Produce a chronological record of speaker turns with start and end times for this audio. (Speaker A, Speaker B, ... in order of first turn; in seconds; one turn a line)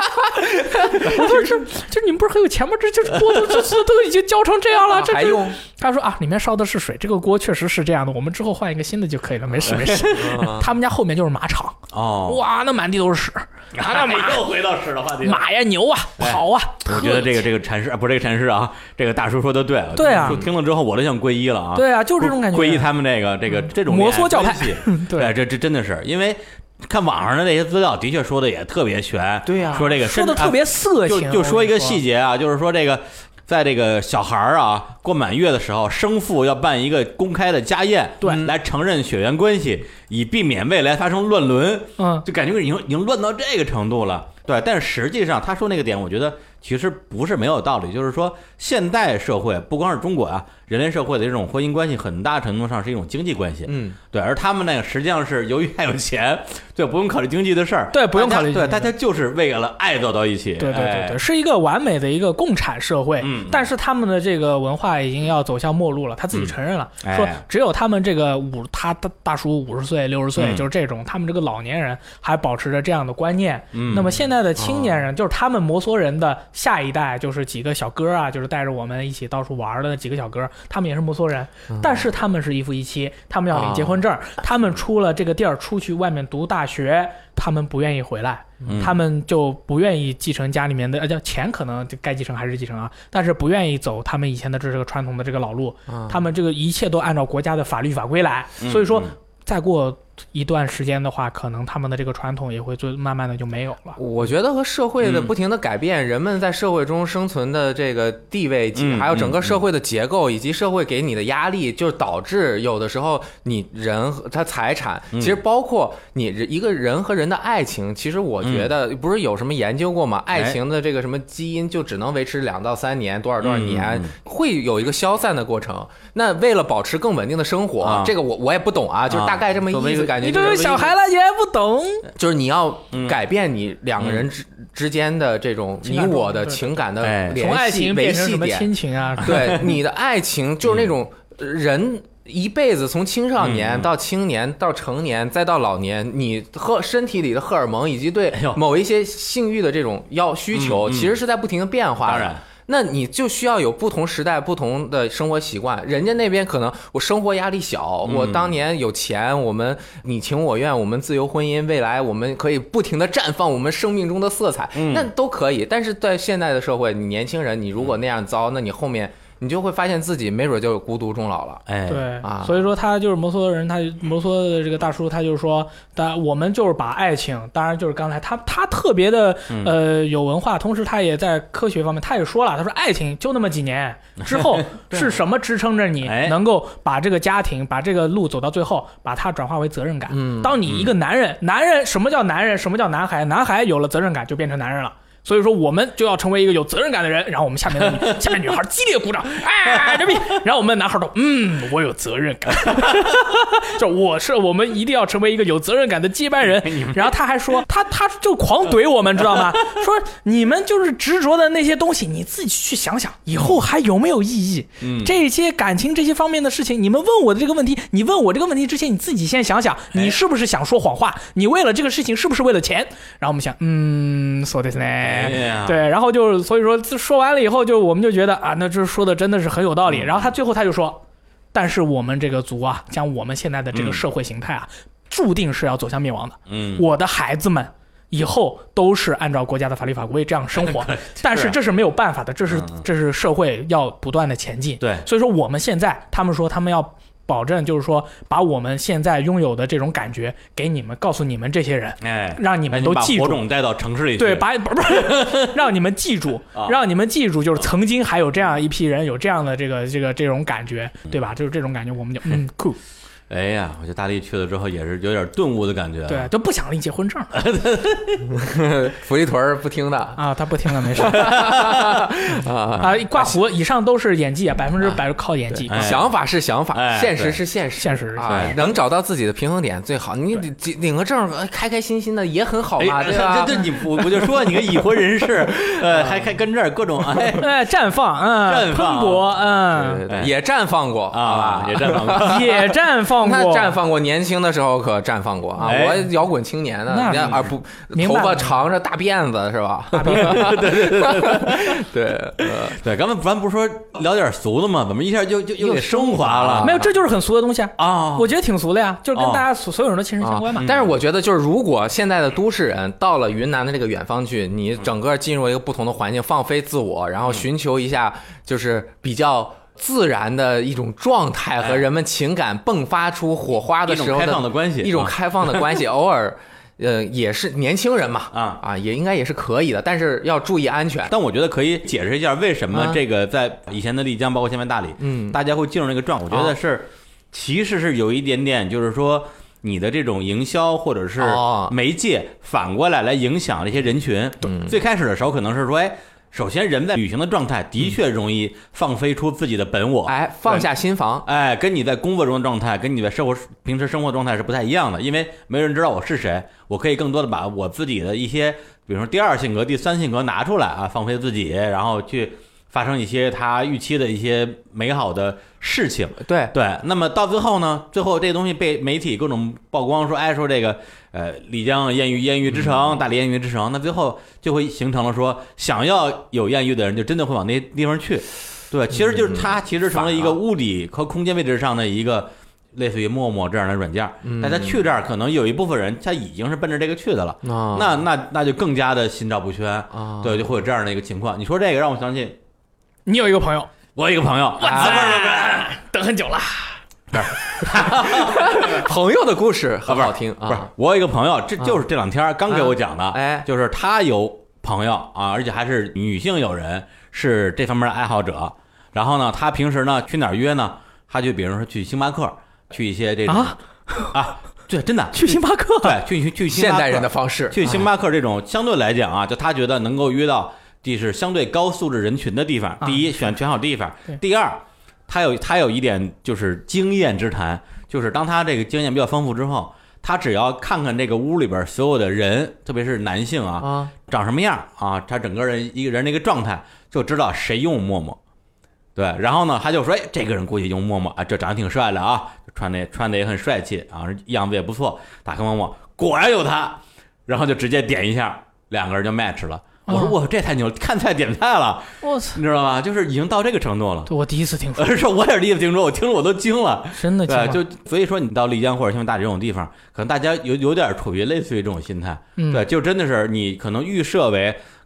Speaker A: 0.5-14.4
Speaker B: 0.9-1.5
Speaker B: 4.9-5.6
Speaker B: 9.7-10.7
Speaker C: 9.7-10.0
Speaker C: 11.9-12.4
Speaker C: 13.7-15.4
Speaker A: 15.2-17.4
Speaker C: 16.2-61.2
Speaker A: 19.9-20.4
Speaker B: 20.2-20.5
Speaker A: 21.8-22.9
Speaker A: 23.6-25.3
Speaker B: 29.5-29.9
Speaker A: 29.7-32.0
Speaker B: 38.2-38.5
Speaker A: 42.0-42.3
Speaker B: 53.7-54.0
Speaker A: 57.9-58.9
Speaker A: 60.6-104.0
Speaker C: 63.2-63.7
Speaker C: 67.0-67.4
Speaker C: 70.4-70.7
Speaker C: 73.7-74.2
Speaker B: 74.6-75.0
Speaker B: 81.7-82.1
Speaker B: 83.5-84.0
Speaker C: 88.7-89.0
Speaker B: 95.9-96.3
Speaker C: 98.6-99.1
Speaker B: 104.0-130.9
Speaker C: 105.0-105.3
Speaker C: 108.8-109.6
Speaker C: 115.1-115.4
Speaker C: 118.4-118.7
Speaker C: 120.3-120.6
Speaker C: 123.4-124.1
Speaker C: 127.8-128.1
Speaker C: 129.1-130.8
Speaker A: 130.2-132.1
Speaker B: 132.2-171.6
Speaker C: 132.9-133.2
Speaker C: 134.0-134.2
Speaker A: 135.8-136.7
Speaker C: 137.0-137.4
Speaker A: 137.3-139.6
Speaker C: 140.7-140.9
Speaker C: 143.4-143.9
Speaker C: 148.3-148.6
Speaker C: 150.5-151.2
Speaker C: 152.0-152.4
Speaker C: 158.0-158.6
Speaker C: 164.8-165.1
Speaker C: 171.7-172.1
Speaker A: 171.9-231.0
Speaker B: 172.2-172.6
Speaker C: 179.5-179.8
Speaker C: 184.2-184.7
Speaker C: 186.0-186.4
Speaker B: 190.1-190.6
Speaker C: 190.7-190.9
Speaker C: 206.6-207.2
Speaker C: 214.8-215.1
Speaker C: 225.0-225.8
Speaker C: 229.9-230.3
Speaker A: 231.5-253.4
Speaker C: 233.7-234.0
Speaker C: 236.5-236.8
Speaker C: 240.6-241.6
Speaker C: 242.5-242.8
Speaker C: 244.8-245.1
Speaker C: 252.0-255.5
Speaker A: 254.2-262.8
Speaker C: 256.5-256.8
Speaker C: 263.3-266.3
Speaker A: 266.1-267.4
Speaker C: 267.3-268.3
Speaker B: 268.3-270.2
Speaker A: 270.2-271.4
Speaker B: 271.0-273.3
Speaker C: 271.0-272.0
Speaker A: 272.8-276.0
Speaker B: 275.5-286.4
Speaker C: 275.7-276.1
Speaker C: 276.7-277.4
Speaker A: 277.8-278.6
Speaker C: 278.3-278.6
Speaker C: 282.8-287.5
Speaker A: 287.4-290.0
Speaker C: 288.4-289.4
Speaker B: 289.7-292.5
Speaker C: 291.1-292.6
Speaker A: 292.1-293.8
Speaker B: 293.2-302.8
Speaker C: 295.6-296.1
Speaker A: 296.9-298.6
Speaker A: 299.9-300.5
Speaker C: 300.1-301.8
Speaker C: 302.4-306.7
Speaker B: 305.6-306.9
Speaker A: 306.6-310.7
Speaker C: 307.8-308.3
Speaker C: 309.1-309.4
Speaker B: 310.2-331.1
Speaker C: 310.6-310.9
Speaker C: 321.6-321.9
Speaker C: 323.9-325.8
Speaker C: 328.3-328.6
Speaker C: 331.1-350.7
Speaker B: 332.7-333.0
Speaker B: 335.0-335.4
Speaker B: 336.3-336.6
Speaker B: 341.2-341.8
Speaker B: 344.4-344.8
Speaker B: 350.1-351.3
Speaker C: 351.2-392.4
Speaker B: 366.2-366.5
Speaker B: 379.0-380.4
Speaker B: 384.2-384.8
Speaker B: 387.4-388.0
Speaker B: 389.9-390.5
Speaker A: 393.1-393.7
Speaker C: 393.9-395.8
Speaker A: 394.6-396.8
Speaker B: 394.7-395.1
Speaker C: 397.1-398.9
Speaker B: 398.1-400.7
Speaker C: 399.9-413.6
Speaker B: 402.5-403.5
Speaker A: 413.3-414.2
Speaker C: 414.1-438.2
Speaker A: 415.1-416.0
Speaker B: 416.5-417.9
Speaker A: 422.8-423.1
Speaker B: 433.6-433.9
Speaker C: 439.0-454.1
Speaker A: 449.9-450.1
Speaker A: 452.0-452.4
Speaker A: 454.1-455.0
Speaker C: 454.8-464.6
Speaker A: 456.9-457.6
Speaker A: 462.4-462.7